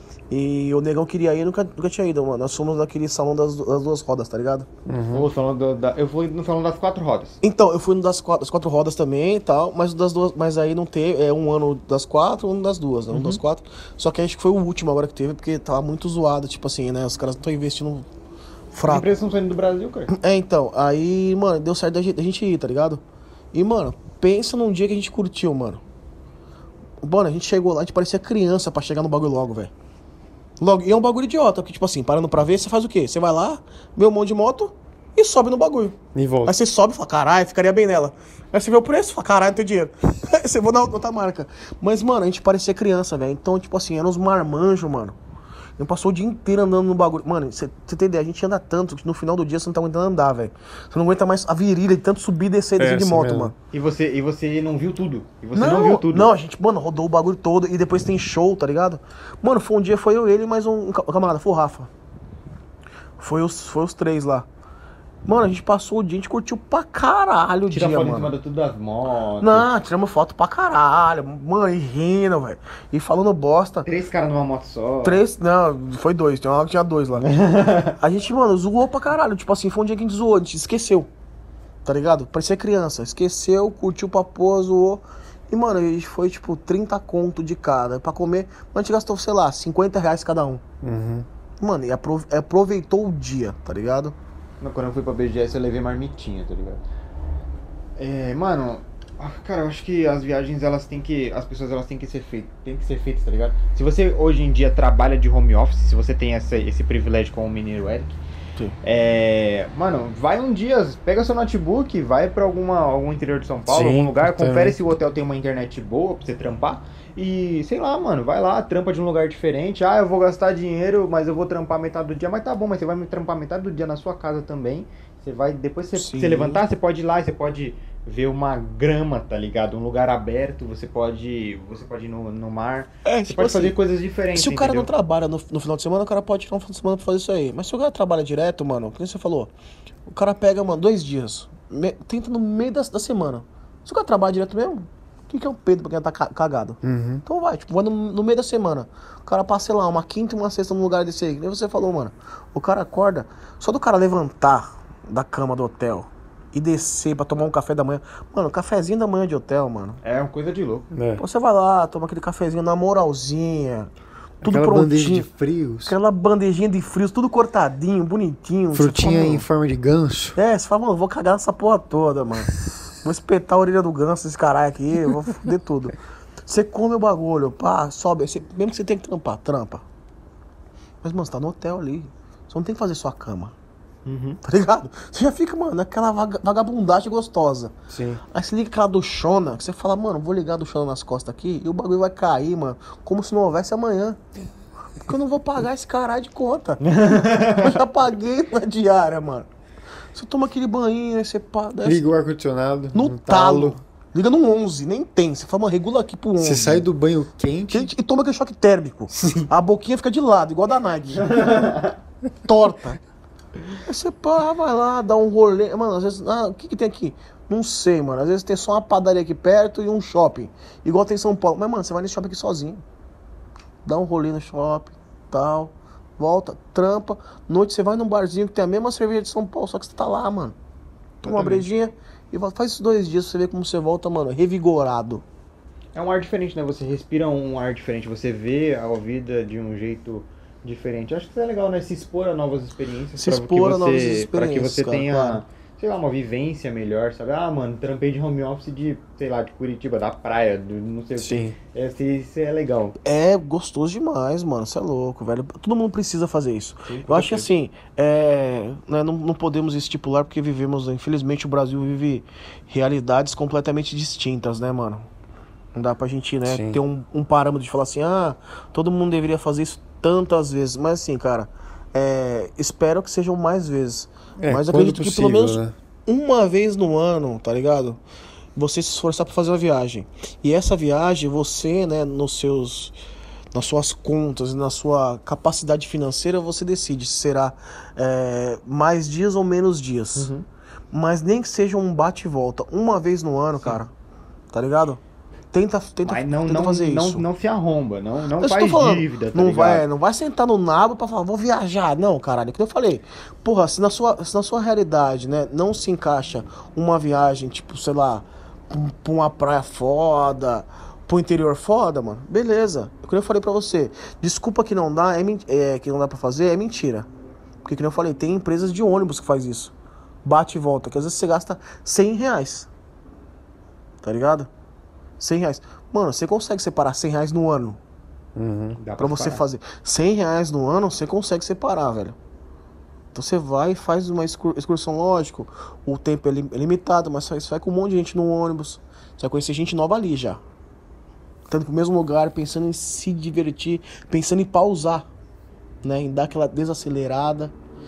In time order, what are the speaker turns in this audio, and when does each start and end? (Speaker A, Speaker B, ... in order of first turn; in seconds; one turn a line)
Speaker A: 0.3-4.7
Speaker B: 4.8-5.3
Speaker C: 5.1-7.4
Speaker A: 7.4-18.1
Speaker C: 13.1-13.4
Speaker A: 18.7-19.1
Speaker C: 18.9-20.1
Speaker A: 20.1-23.0
Speaker A: 23.5-25.8
Speaker A: 27.0-29.7
Speaker A: 30.6-45.2
Speaker B: 36.1-36.5
Speaker A: 45.8-53.5
Speaker B: 52.8-53.5
Speaker C: 53.7-56.3
Speaker A: 55.5-61.9
Speaker A: 63.2-64.5
Speaker A: 65.2-68.3
Speaker C: 67.7-69.7
Speaker A: 69.4-73.9
Speaker C: 73.8-75.2
Speaker A: 75.0-77.3
Speaker C: 77.2-78.0
Speaker A: 78.0-81.1
Speaker A: 81.8-90.6
Speaker B: 90.8-91.3
Speaker A: 91.6-94.1
Speaker C: 94.6-96.8
Speaker C: 98.0-108.2
Speaker C: 108.8-134.9
Speaker B: 113.7-114.8
Speaker A: 126.0-126.6
Speaker A: 133.0-133.7
Speaker A: 134.3-139.5
Speaker A: 140.1-160.0
Speaker B: 146.8-147.2
Speaker C: 160.0-160.9
Speaker B: 160.9-161.2
Speaker A: 161.2-163.9
Speaker B: 164.4-165.9
Speaker A: 164.4-165.3
Speaker A: 165.8-169.4
Speaker B: 168.7-170.4
Speaker A: 170.3-172.5
Speaker A: 173.0-175.9
Speaker A: 176.4-179.8
Speaker A: 181.0-183.5
Speaker C: 184.0-184.4
Speaker A: 184.4-187.7
Speaker B: 187.9-188.2
Speaker A: 188.3-194.2
Speaker A: 195.0-196.8
Speaker C: 196.8-197.8
Speaker A: 197.5-199.5
Speaker A: 200.1-202.0
Speaker B: 201.8-203.8
Speaker A: 202.9-206.9
Speaker B: 206.4-207.9
Speaker A: 207.7-211.7
Speaker B: 209.1-209.5
Speaker C: 211.2-211.9
Speaker A: 212.4-213.0
Speaker A: 213.8-222.8
Speaker A: 223.8-230.6
Speaker A: 231.2-235.2
Speaker C: 231.2-231.7
Speaker C: 235.9-253.0
Speaker A: 243.2-245.4
Speaker B: 251.2-251.5
Speaker A: 253.0-265.1
Speaker C: 256.9-257.5
Speaker A: 265.7-278.0
Speaker B: 266.5-266.8
Speaker B: 274.4-275.7
Speaker A: 278.6-282.9
Speaker A: 283.5-290.3
Speaker C: 290.1-290.4
Speaker A: 290.9-293.9
Speaker A: 294.5-295.0
Speaker A: 295.5-297.2
Speaker C: 296.0-299.8
Speaker A: 298.4-317.1
Speaker A: 317.6-319.7
Speaker A: 320.2-322.7
Speaker A: 324.0-324.5
Speaker A: 325.2-327.8
Speaker B: 328.3-328.8
Speaker C: 328.8-329.4
Speaker A: 329.0-332.1
Speaker A: 333.1-340.4
Speaker A: 341.5-345.1
Speaker A: 345.8-347.5